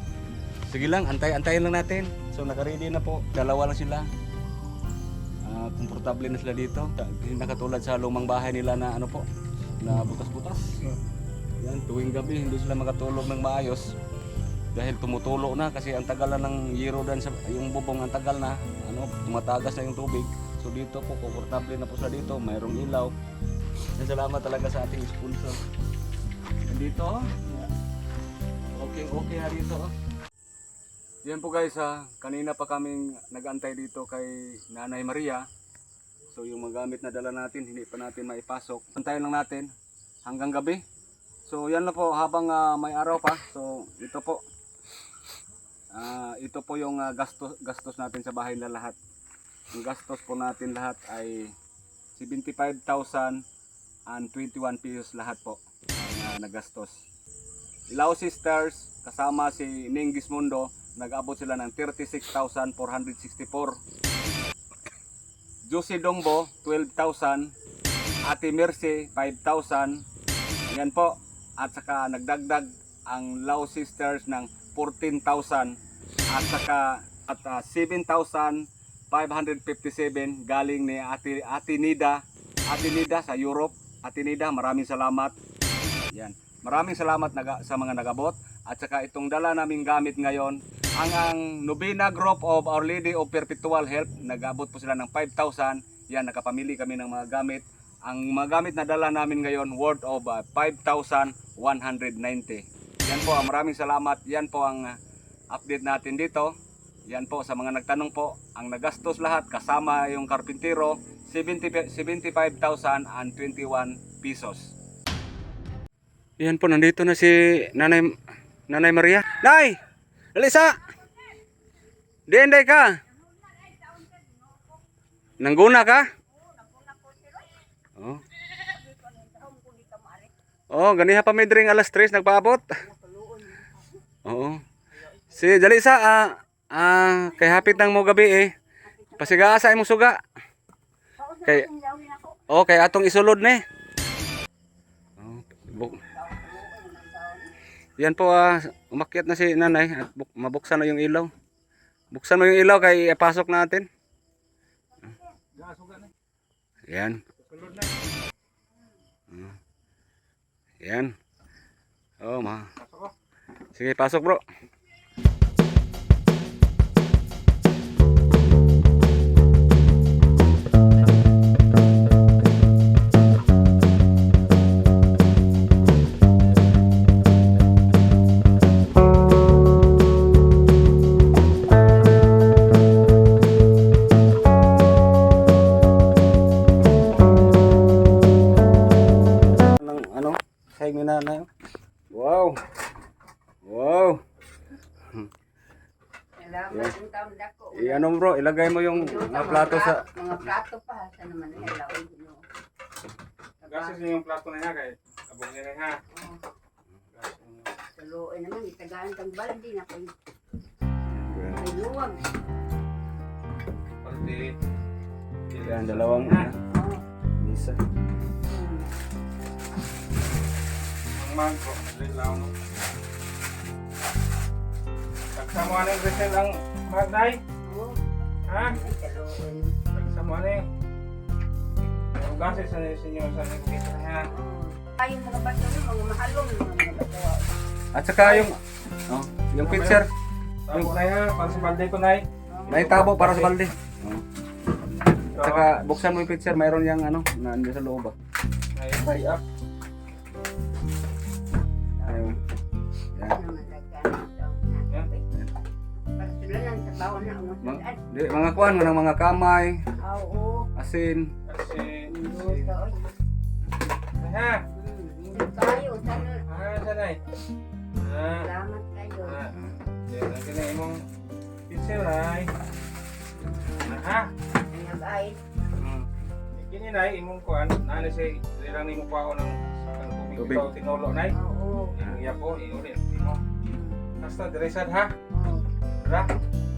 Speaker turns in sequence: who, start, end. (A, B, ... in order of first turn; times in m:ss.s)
0:00.7-0:04.1 A
0:05.4-0:09.3 A
0:09.8-0:10.8 A
0:11.6-0:13.8 A
0:14.7-0:23.1 A
0:24.0-0:25.6 A
0:26.7-0:27.6 A
0:28.7-0:29.9 A
0:31.2-0:35.4 A
0:36.3-0:39.7 A
0:40.2-0:40.8 A
0:41.4-0:44.4 A
0:45.9-0:49.0 A
0:49.7-0:51.5 A
0:52.1-0:53.4 A
0:54.1-0:57.0 A
0:57.9-1:03.8 A
1:05.6-1:07.5 A
1:08.2-1:10.0 A
1:10.7-1:15.8 A
1:16.3-1:25.4 A
1:26.1-1:45.0 A
1:45.5-1:46.6 A
1:47.1-1:54.7 A
1:56.4-1:58.2 A
1:58.7-1:59.8 A
2:00.3-2:00.8 A
2:02.3-2:03.0 A
2:03.5-2:04.3 B
2:05.4-2:06.1 A
2:06.3-2:07.6 B
2:08.0-2:08.2 A
2:08.5-2:10.3 B
2:10.7-2:12.8 A
2:12.8-2:14.0 B
2:14.2-2:14.6 A
2:15.3-2:18.5 A
2:17.3-2:17.8 B
2:18.8-2:19.7 B
2:19.2-2:20.2 A
2:21.2-2:22.4 B
2:22.5-2:23.6 A
2:25.2-2:26.0 A
2:25.8-2:27.5 B
2:28.0-2:31.3 A
2:32.1-2:33.9 A
2:35.6-2:36.1 C
2:36.9-2:37.2 A
2:37.4-2:37.9 C
2:39.3-2:39.6 A
2:40.8-2:41.1 A
2:42.2-2:42.7 A
2:42.8-2:43.1 C
2:43.7-2:44.4 A
3:09.4-3:11.5 A
3:12.1-3:12.6 A
3:13.6-3:14.2 A
3:15.0-3:15.3 A
3:16.4-3:18.1 B
3:17.7-3:20.0 A
3:18.9-3:22.4 B
3:23.6-3:24.0 B
3:23.7-3:26.0 C
3:26.1-3:26.4 B
3:27.2-3:27.7 C
3:28.0-3:30.1 B
3:31.0-3:31.7 A
3:31.6-3:32.2 B
3:34.0-3:34.6 C
3:35.5-3:36.5 C
3:35.6-3:36.6 A
3:36.7-3:37.0 B
3:37.4-3:37.8 A
3:38.4-3:39.0 B
3:41.1-3:42.5 C
3:45.3-3:47.4 C
3:47.6-3:48.0 B
3:48.5-3:48.7 C
3:48.6-3:49.8 B
3:49.9-3:50.6 C
3:52.1-3:54.3 C
3:54.3-3:57.4 B
3:57.9-4:00.1 A
3:58.2-3:58.5 C
3:59.6-4:00.0 C
4:00.7-4:02.2 C
4:02.5-4:03.1 B
4:02.7-4:04.2 A
4:02.8-4:03.5 C
4:05.3-4:08.1 A
4:05.3-4:05.7 C
4:08.7-4:09.4 C
4:11.9-4:12.4 B
4:12.1-4:12.4 A
4:13.2-4:15.2 B
4:16.1-4:18.0 B
4:17.6-4:19.8 A
4:20.0-4:20.7 B
4:20.8-4:21.3 A
4:21.5-4:22.7 C
4:22.0-4:23.1 B
4:24.2-4:24.6 C
4:24.7-4:26.4 B
4:26.5-4:27.2 C
4:28.0-4:28.5 C
4:28.2-4:29.5 B
4:29.2-4:29.5 C
4:30.1-4:31.0 C
4:31.7-4:32.5 C
4:33.3-4:33.8 B
4:33.8-4:34.3 C
4:34.7-4:35.4 B
4:35.8-4:41.3 C
4:40.4-4:40.7 A
4:41.3-4:42.0 B
4:42.0-4:43.4 C
4:43.6-4:44.0 B
4:44.2-4:45.1 C
4:45.3-4:45.6 B
4:46.0-4:46.3 C